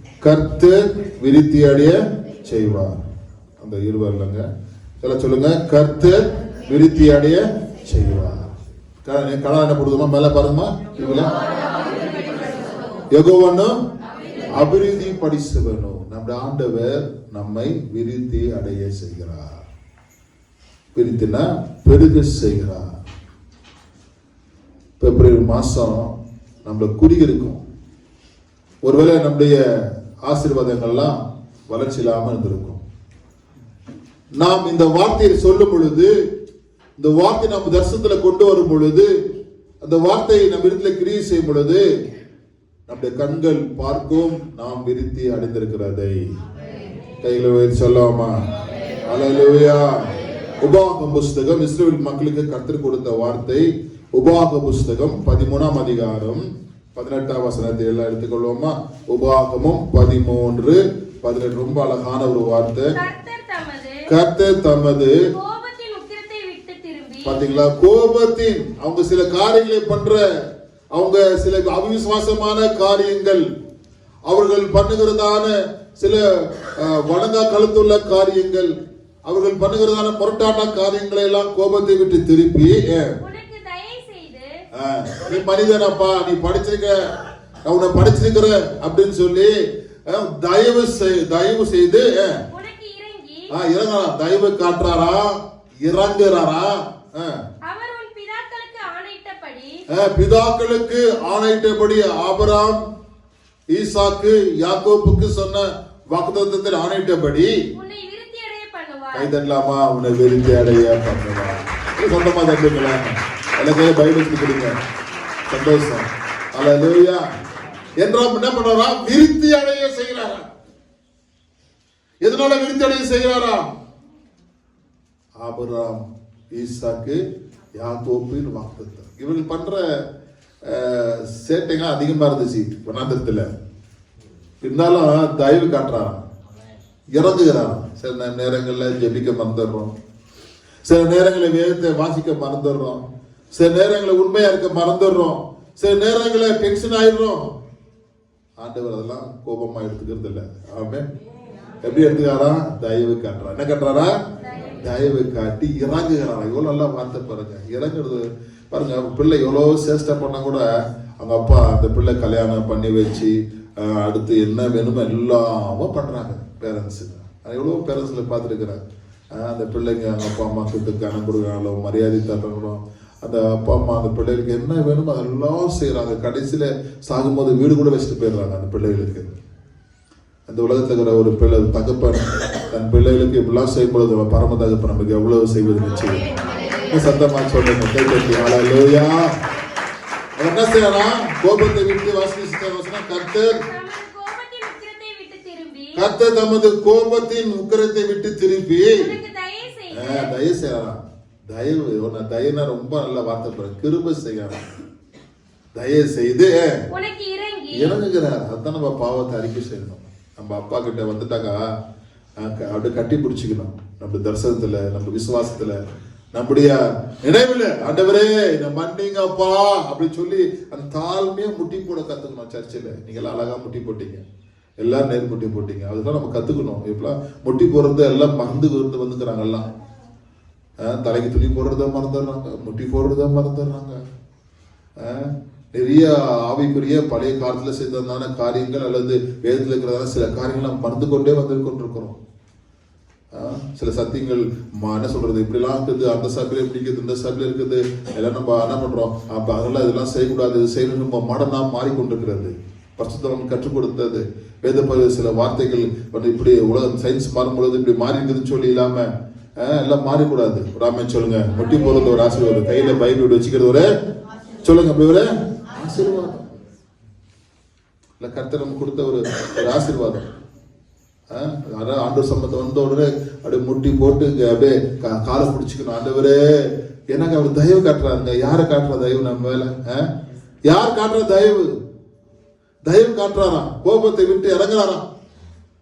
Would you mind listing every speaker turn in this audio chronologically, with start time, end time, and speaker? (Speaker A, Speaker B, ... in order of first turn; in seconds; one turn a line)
Speaker A: 0.2-3.0
Speaker A: 3.6-4.5
Speaker A: 5.0-8.5
Speaker A: 9.0-11.3
Speaker A: 13.1-13.8
Speaker A: 14.5-19.6
Speaker A: 20.9-22.9
Speaker A: 25.0-26.1
Speaker A: 26.6-27.6
Speaker A: 28.8-29.6
Speaker A: 30.2-32.8
Speaker A: 34.4-36.1
Speaker A: 37.0-39.1
Speaker A: 39.8-41.8
Speaker A: 42.9-46.3
Speaker A: 47.2-48.4
Speaker A: 49.0-63.0
Speaker B: 62.9-64.0
Speaker A: 64.1-65.2
Speaker B: 65.3-67.4
Speaker A: 67.2-70.2
Speaker A: 70.9-73.5
Speaker A: 74.3-78.7
Speaker A: 79.2-83.2
Speaker B: 83.2-84.6
Speaker A: 84.7-89.5
Speaker A: 90.1-92.4
Speaker B: 92.5-93.5
Speaker A: 93.5-97.4
Speaker B: 97.7-99.8
Speaker A: 99.9-102.8
Speaker A: 103.7-107.5
Speaker B: 107.7-109.3
Speaker A: 109.1-114.7
Speaker A: 115.5-117.2
Speaker A: 118.0-120.4
Speaker A: 122.2-123.6
Speaker A: 125.4-127.2
Speaker A: 127.8-130.0
Speaker A: 130.6-133.5
Speaker A: 134.6-136.2
Speaker A: 137.1-139.9
Speaker A: 140.8-147.5
Speaker A: 148.6-151.1
Speaker A: 151.8-154.2
Speaker B: 154.5-154.8
Speaker A: 154.8-160.7
Speaker A: 161.2-168.8
Speaker A: 169.3-179.3
Speaker A: 180.5-186.2
Speaker A: 186.9-189.3
Speaker A: 190.4-193.6
Speaker B: 193.5-195.9
Speaker A: 195.9-199.1
Speaker B: 198.9-200.3
Speaker A: 199.9-204.6
Speaker A: 205.7-206.8
Speaker B: 206.9-207.9
Speaker A: 207.7-211.6
Speaker A: 212.4-215.8
Speaker A: 216.3-224.2
Speaker A: 224.8-229.7
Speaker A: 230.8-234.0
Speaker A: 235.0-242.2
Speaker A: 243.3-263.9
Speaker A: 264.6-266.5
Speaker A: 268.2-270.3
Speaker A: 271.3-280.1
Speaker A: 280.7-281.7
Speaker A: 282.9-285.1